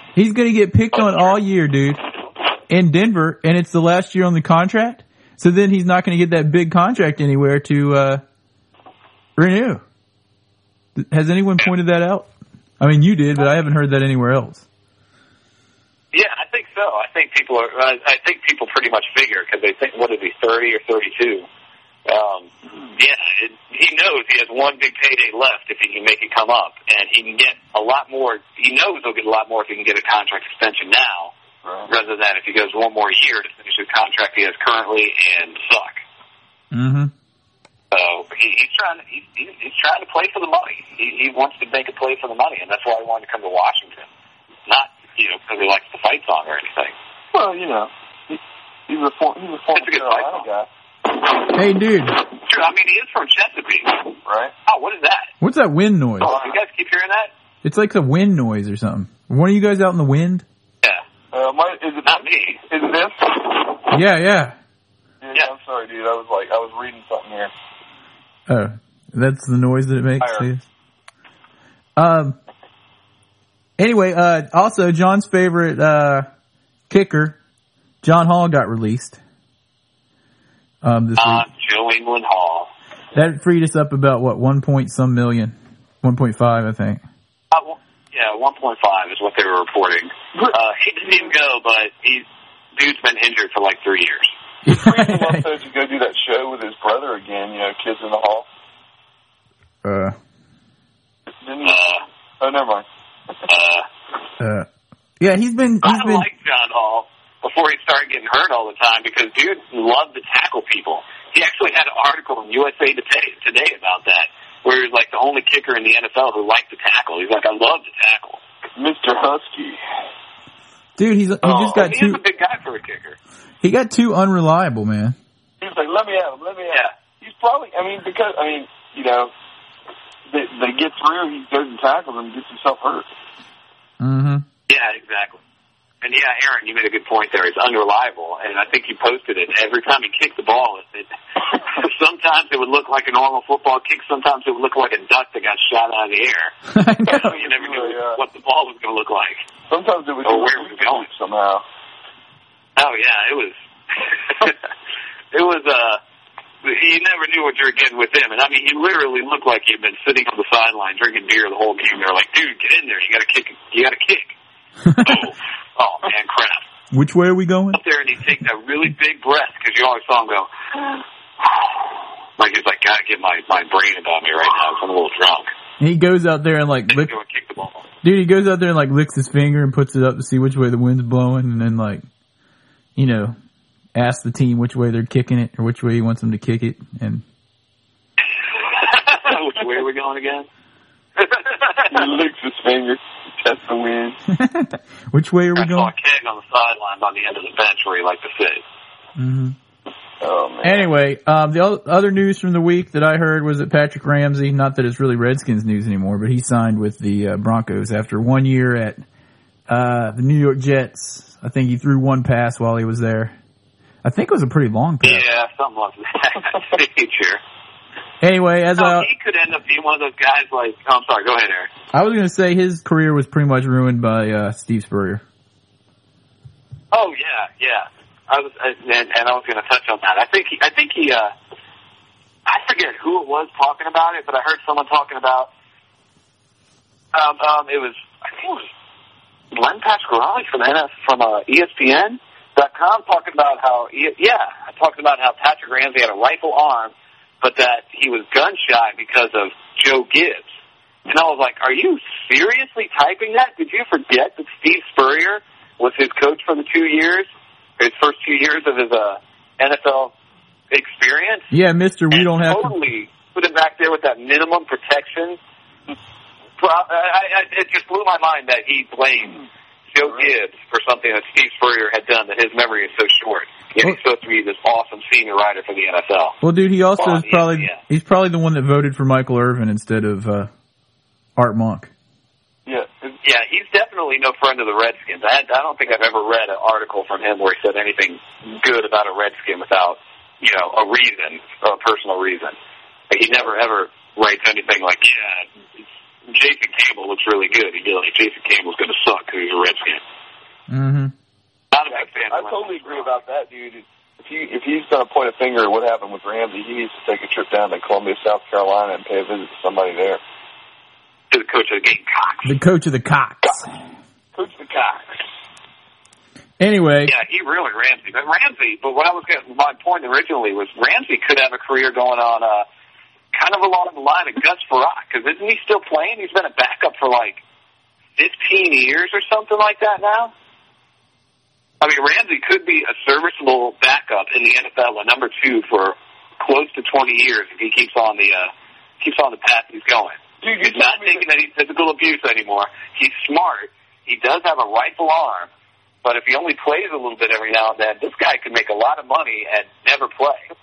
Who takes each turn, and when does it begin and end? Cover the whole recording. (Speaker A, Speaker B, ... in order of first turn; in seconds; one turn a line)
Speaker A: 0.1-2.0
Speaker A: 2.7-8.2
Speaker A: 9.4-9.8
Speaker A: 10.9-12.3
Speaker A: 12.8-14.6
Speaker B: 16.1-21.5
Speaker B: 22.1-31.3
Speaker C: 31.6-31.9
Speaker B: 31.9-36.0
Speaker A: 36.7-37.1
Speaker B: 37.9-44.1
Speaker B: 44.6-46.9
Speaker C: 47.3-50.7
Speaker B: 49.7-50.5
Speaker A: 51.5-52.2
Speaker B: 52.3-54.1
Speaker C: 54.2-54.5
Speaker B: 54.6-55.3
Speaker A: 55.4-56.3
Speaker B: 56.2-57.3
Speaker C: 56.2-56.5
Speaker A: 57.6-60.4
Speaker C: 61.3-63.9
Speaker B: 62.0-62.6
Speaker A: 63.9-64.5
Speaker C: 65.2-67.5
Speaker A: 68.5-70.6
Speaker C: 70.2-70.5
Speaker A: 72.0-72.4
Speaker A: 73.8-76.3
Speaker A: 76.9-77.4
Speaker A: 78.0-79.2
Speaker A: 80.8-81.5
Speaker B: 81.2-82.7
Speaker A: 83.1-87.0
Speaker B: 87.5-94.3
Speaker A: 94.6-95.5
Speaker C: 94.7-98.5
Speaker A: 99.8-100.2
Speaker C: 101.4-101.8
Speaker B: 101.6-102.0
Speaker C: 102.4-102.8
Speaker B: 103.5-103.8
Speaker A: 104.4-104.7
Speaker A: 105.2-106.3
Speaker B: 105.8-118.4
Speaker C: 118.8-119.8
Speaker A: 121.0-122.2
Speaker C: 121.4-121.8
Speaker B: 121.7-123.2
Speaker A: 123.6-125.2
Speaker C: 125.6-129.3
Speaker C: 130.3-133.1
Speaker A: 134.0-134.4
Speaker B: 134.7-135.4
Speaker B: 136.0-146.5
Speaker A: 146.7-147.3
Speaker C: 147.1-148.2
Speaker B: 147.1-149.4
Speaker C: 149.7-151.6
Speaker B: 150.2-151.1
Speaker B: 152.8-154.6
Speaker B: 155.3-156.0
Speaker B: 156.6-164.3
Speaker A: 164.8-165.2
Speaker B: 165.0-166.7
Speaker A: 166.9-167.8
Speaker B: 167.7-171.0
Speaker B: 172.4-175.5
Speaker A: 175.8-177.1
Speaker B: 176.9-177.8
Speaker A: 178.0-182.0
Speaker A: 182.9-183.3
Speaker A: 183.9-187.2
Speaker B: 188.6-190.5
Speaker B: 191.2-192.0
Speaker C: 191.9-194.2
Speaker A: 194.3-195.9
Speaker B: 195.5-198.6
Speaker A: 199.2-199.6
Speaker C: 200.2-200.9
Speaker A: 200.6-209.0
Speaker A: 209.7-213.3
Speaker A: 214.0-215.2
Speaker B: 215.0-217.4
Speaker A: 218.2-219.1
Speaker B: 218.8-221.7
Speaker A: 221.9-225.2
Speaker B: 226.9-231.3
Speaker B: 232.4-235.5
Speaker B: 237.1-238.7
Speaker B: 239.5-250.5
Speaker B: 251.1-257.3
Speaker B: 257.8-260.1
Speaker B: 260.7-261.5
Speaker A: 261.5-262.7
Speaker B: 262.1-265.4
Speaker B: 266.6-269.4
Speaker B: 269.9-276.4
Speaker A: 276.4-280.5
Speaker B: 277.0-277.8
Speaker A: 281.4-281.9
Speaker C: 282.6-283.2
Speaker B: 283.2-292.6
Speaker B: 293.1-300.0
Speaker A: 300.7-301.1
Speaker B: 301.7-303.1
Speaker C: 301.9-310.2
Speaker B: 311.3-312.5
Speaker A: 312.4-313.7
Speaker C: 314.3-315.2
Speaker A: 316.6-317.1
Speaker B: 317.1-322.6
Speaker B: 323.3-327.4
Speaker B: 328.2-330.3
Speaker B: 331.8-345.5
Speaker C: 340.4-341.2
Speaker B: 346.0-350.4